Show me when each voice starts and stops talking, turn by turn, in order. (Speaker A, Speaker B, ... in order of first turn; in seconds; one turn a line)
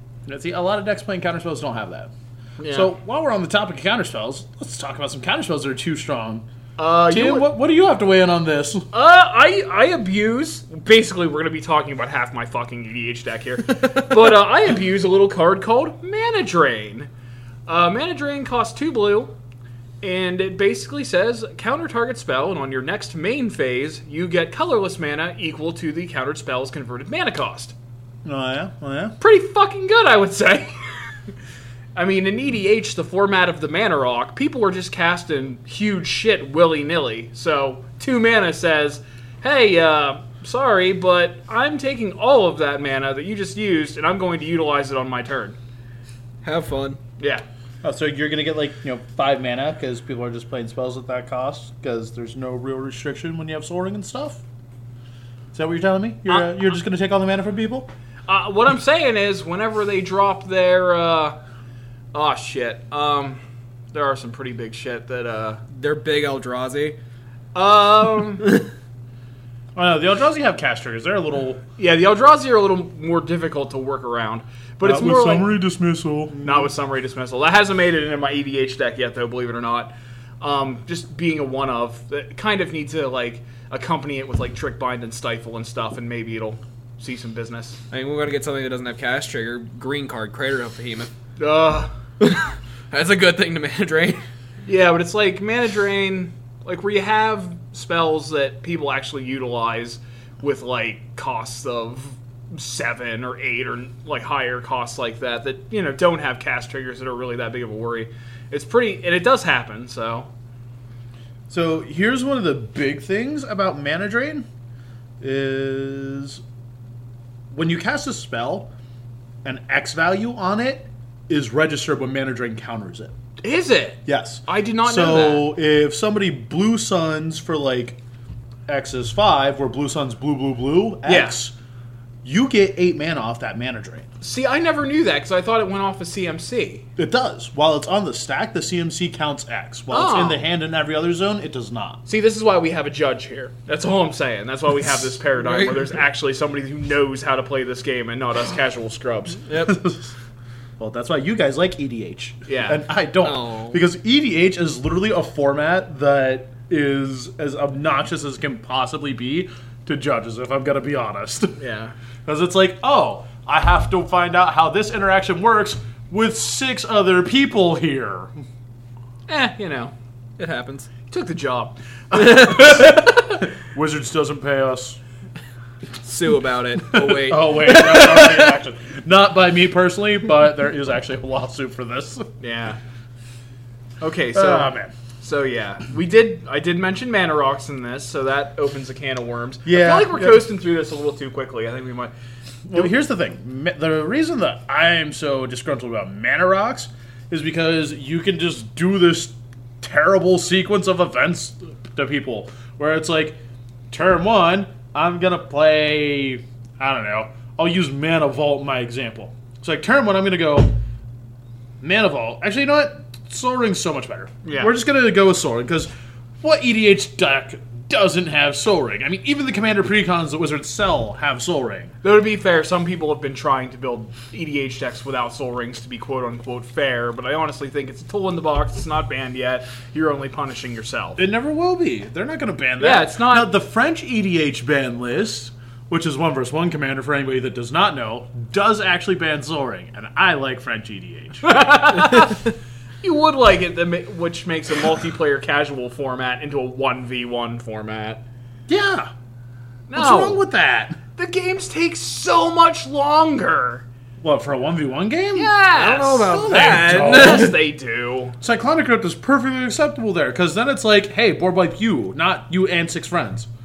Speaker A: 0.2-2.1
Speaker B: 2.6-2.9
Speaker A: 2.7-6.5
Speaker B: 6.8-7.5
Speaker A: 7.1-8.8
Speaker B: 8.9-17.1
Speaker B: 17.7-19.3
Speaker B: 20.0-27.7
Speaker A: 28.2-29.1
Speaker B: 29.2-30.7
Speaker B: 31.9-45.6
Speaker C: 46.4-47.0
Speaker B: 47.2-47.4
Speaker A: 47.8-54.4
Speaker A: 55.5-57.9
Speaker B: 56.3-56.5
Speaker B: 58.3-61.4
Speaker B: 62.1-63.4
Speaker B: 63.9-65.6
Speaker C: 65.7-67.0
Speaker B: 67.5-68.5
Speaker A: 69.7-71.6
Speaker B: 71.8-75.5
Speaker A: 74.8-76.7
Speaker B: 76.4-87.8
Speaker C: 87.9-91.1
Speaker B: 91.4-91.9
Speaker C: 92.2-94.2
Speaker B: 94.7-110.3
Speaker A: 111.5-114.4
Speaker A: 115.2-116.4
Speaker A: 117.5-118.7
Speaker A: 119.4-123.1
Speaker B: 123.4-125.5
Speaker A: 124.0-128.0
Speaker A: 128.7-131.5
Speaker B: 131.0-131.4
Speaker A: 132.2-134.1
Speaker B: 134.2-136.8
Speaker A: 137.0-142.0
Speaker B: 139.9-140.4
Speaker B: 142.1-149.4
Speaker C: 145.4-145.9
Speaker C: 149.5-149.8
Speaker A: 149.6-150.1
Speaker A: 150.8-161.5
Speaker B: 152.5-152.8
Speaker C: 153.2-153.8
Speaker B: 161.6-161.9
Speaker A: 162.2-168.3
Speaker B: 169.3-169.9
Speaker C: 170.4-170.9
Speaker B: 171.1-173.4
Speaker A: 173.6-175.0
Speaker C: 176.0-178.6
Speaker A: 176.8-182.3
Speaker B: 182.4-182.8
Speaker B: 184.0-192.1
Speaker A: 184.3-184.9
Speaker A: 189.6-190.4
Speaker A: 192.7-203.4
Speaker A: 203.9-210.8
Speaker A: 211.8-215.9
Speaker B: 214.4-214.7
Speaker A: 216.4-221.9
Speaker B: 222.0-231.2
Speaker A: 231.2-241.4
Speaker B: 232.8-233.5
Speaker B: 241.4-248.2
Speaker A: 248.7-249.1
Speaker B: 249.9-250.4
Speaker A: 249.9-251.0
Speaker B: 251.2-253.8
Speaker A: 254.2-255.5
Speaker B: 255.3-258.4
Speaker C: 255.7-257.5
Speaker A: 256.2-257.6
Speaker A: 258.4-263.5